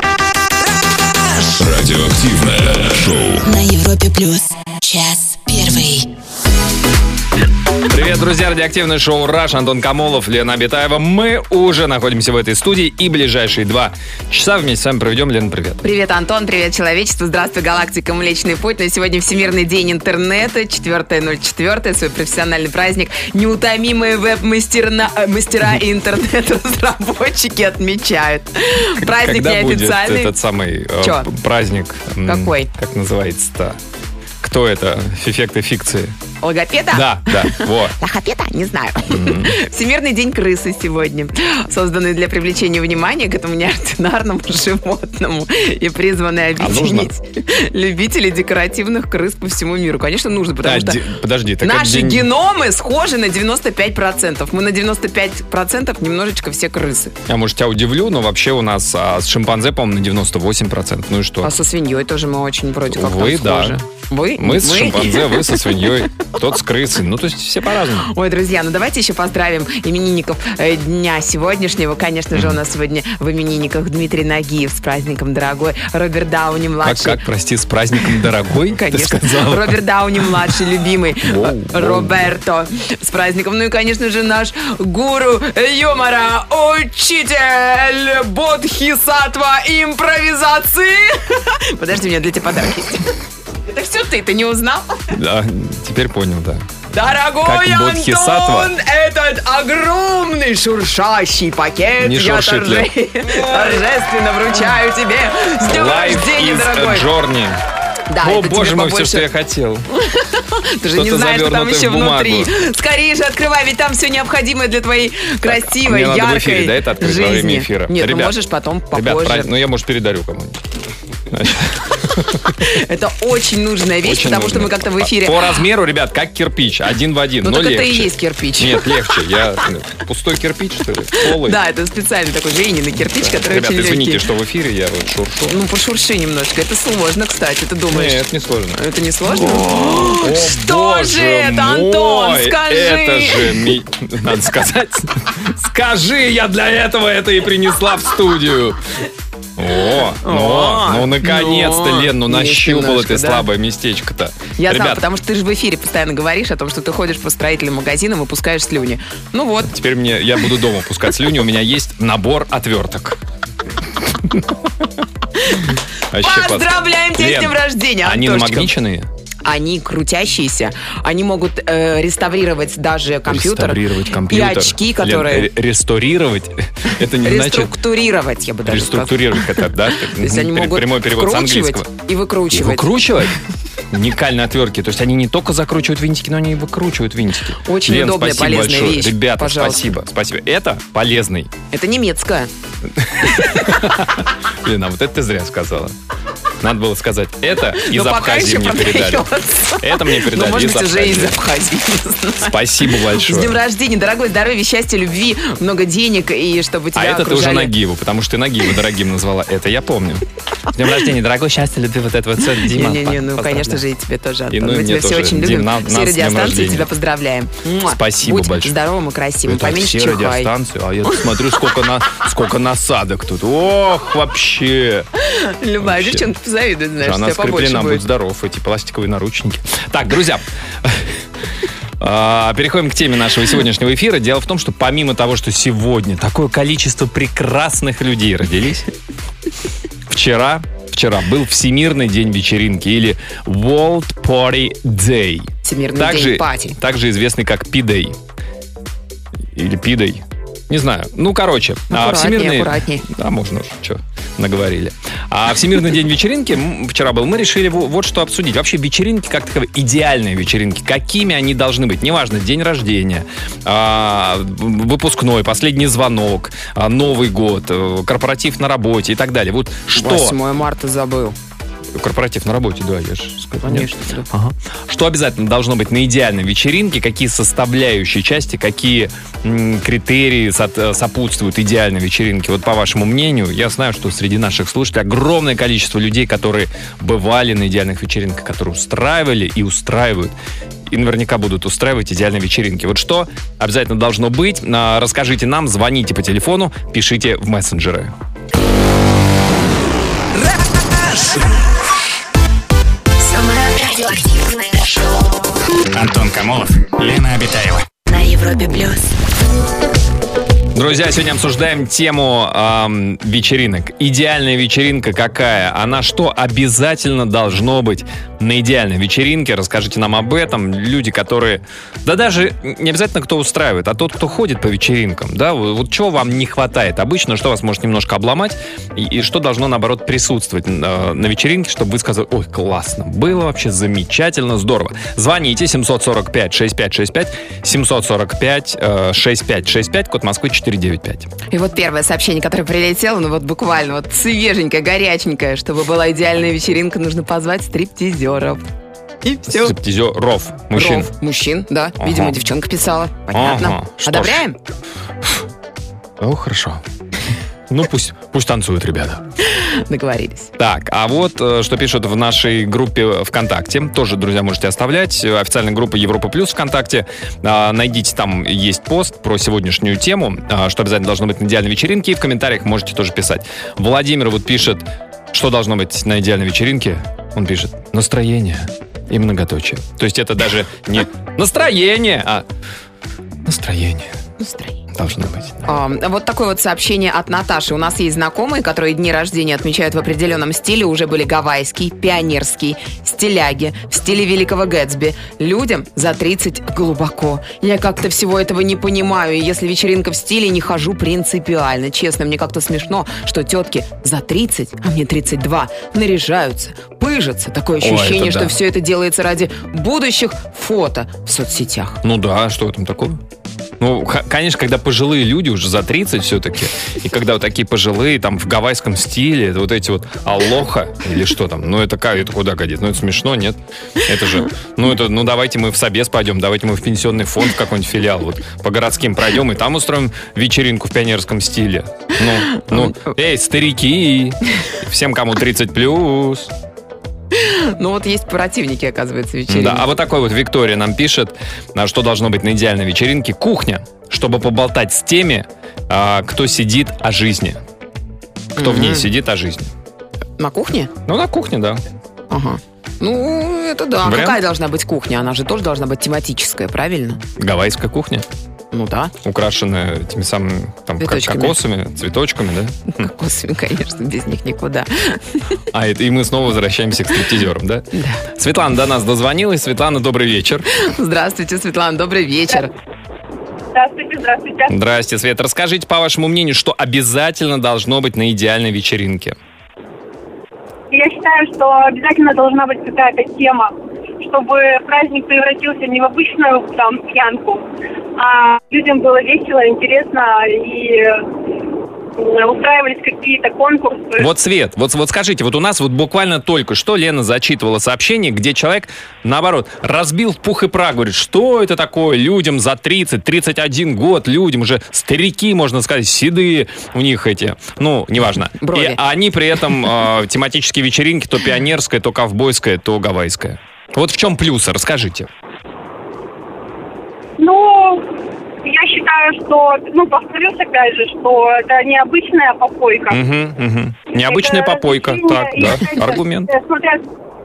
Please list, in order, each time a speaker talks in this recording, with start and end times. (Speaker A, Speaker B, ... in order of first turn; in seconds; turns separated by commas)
Speaker A: 1.5-3.5, Speaker B: 3.4-6.1, Speaker C: 7.9-15.8, Speaker D: 15.8-30.4, Speaker C: 29.0-33.8, Speaker D: 31.0-31.3, Speaker D: 32.2-32.7, Speaker C: 34.4-36.1, Speaker D: 36.4-51.0, Speaker C: 36.9-38.0, Speaker C: 39.1-39.6, Speaker C: 46.6-47.1, Speaker C: 50.6-52.3, Speaker D: 51.6-57.1, Speaker C: 57.3-61.5, Speaker D: 61.4-66.2, Speaker C: 62.9-63.8, Speaker C: 64.4-68.1, Speaker D: 68.0-77.2, Speaker C: 76.8-80.5, Speaker D: 78.7-95.1, Speaker C: 81.2-82.3, Speaker C: 95.1-96.7, Speaker D: 96.9-107.1, Speaker C: 97.4-98.7, Speaker C: 102.0-103.9, Speaker C: 105.6-107.6, Speaker D: 108.1-109.3, Speaker C: 108.2-109.8, Speaker D: 109.9-119.5, Speaker C: 110.9-112.5, Speaker C: 115.4-118.4, Speaker C: 118.9-120.6, Speaker C: 121.3-122.7, Speaker D: 122.6-125.5, Speaker C: 124.0-131.6, Speaker D: 127.4-129.6, Speaker D: 131.1-134.2, Speaker C: 133.1-135.6, Speaker D: 135.5-143.7, Speaker C: 137.9-148.8, Speaker C: 149.6-155.0, Speaker D: 150.2-153.5, Speaker D: 154.6-159.7, Speaker C: 159.6-163.2, Speaker C: 164.0-164.8, Speaker D: 165.4-168.7, Speaker C: 166.1-169.1, Speaker D: 169.4-175.5, Speaker C: 173.2-177.7, Speaker D: 177.2-182.9, Speaker C: 178.7-181.9, Speaker C: 182.5-183.4, Speaker C: 183.9-191.5, Speaker D: 187.6-189.8, Speaker D: 191.7-192.5, Speaker C: 193.0-195.9, Speaker D: 193.3-193.7, Speaker C: 196.6-201.4, Speaker D: 197.7-207.7, Speaker C: 202.4-203.6, Speaker C: 206.9-213.8, Speaker D: 212.5-220.5, Speaker C: 214.5-216.9, Speaker C: 217.8-218.7, Speaker C: 219.5-225.1, Speaker D: 225.2-228.0, Speaker C: 225.8-226.3, Speaker C: 227.0-231.2, Speaker C: 232.0-238.9, Speaker C: 240.1-248.2, Speaker D: 245.6-246.8, Speaker C: 249.5-270.4, Speaker D: 251.9-253.1, Speaker D: 269.9-271.4, Speaker C: 271.9-290.3, Speaker D: 273.6-274.3, Speaker C: 290.9-298.1, Speaker B: 303.2-305.4, Speaker E: 305.9-307.9, Speaker B: 308.1-309.1, Speaker C: 310.7-341.3, Speaker D: 341.5-348.6, Speaker D: 349.2-349.8, Speaker C: 349.5-351.1, Speaker D: 350.7-354.6, Speaker C: 352.0-352.3, Speaker C: 353.3-354.4, Speaker C: 356.2-356.8, Speaker C: 357.7-359.2, Speaker D: 359.4-360.5, Speaker C: 360.6-382.4, Speaker C: 383.4-384.1, Speaker D: 384.4-384.8, Speaker C: 384.9-385.6, Speaker D: 385.6-412.0, Speaker C: 407.8-408.5, Speaker C: 412.0-413.2, Speaker C: 413.8-436.5, Speaker D: 432.4-433.1, Speaker D: 437.3-439.9, Speaker C: 439.5-447.6, Speaker D: 448.6-449.1, Speaker C: 448.6-449.7, Speaker D: 450.4-450.9, Speaker C: 451.1-451.8, Speaker D: 452.3-457.2, Speaker C: 454.0-454.4, Speaker C: 457.4-458.2, Speaker D: 458.7-459.1, Speaker C: 459.2-463.1, Speaker D: 461.0-461.6, Speaker D: 462.9-465.5, Speaker C: 465.7-470.6, Speaker D: 467.9-468.2, Speaker D: 470.7-472.7, Speaker F: 473.7-474.8, Speaker C: 474.7-479.4, Speaker F: 480.9-487.6, Speaker F: 488.2-491.2, Speaker F: 492.2-494.3, Speaker C: 494.2-515.3, Speaker D: 508.6-509.0, Speaker F: 517.4-518.1, Speaker F: 518.6-523.2, Speaker C: 523.1-526.5, Speaker F: 524.1-527.0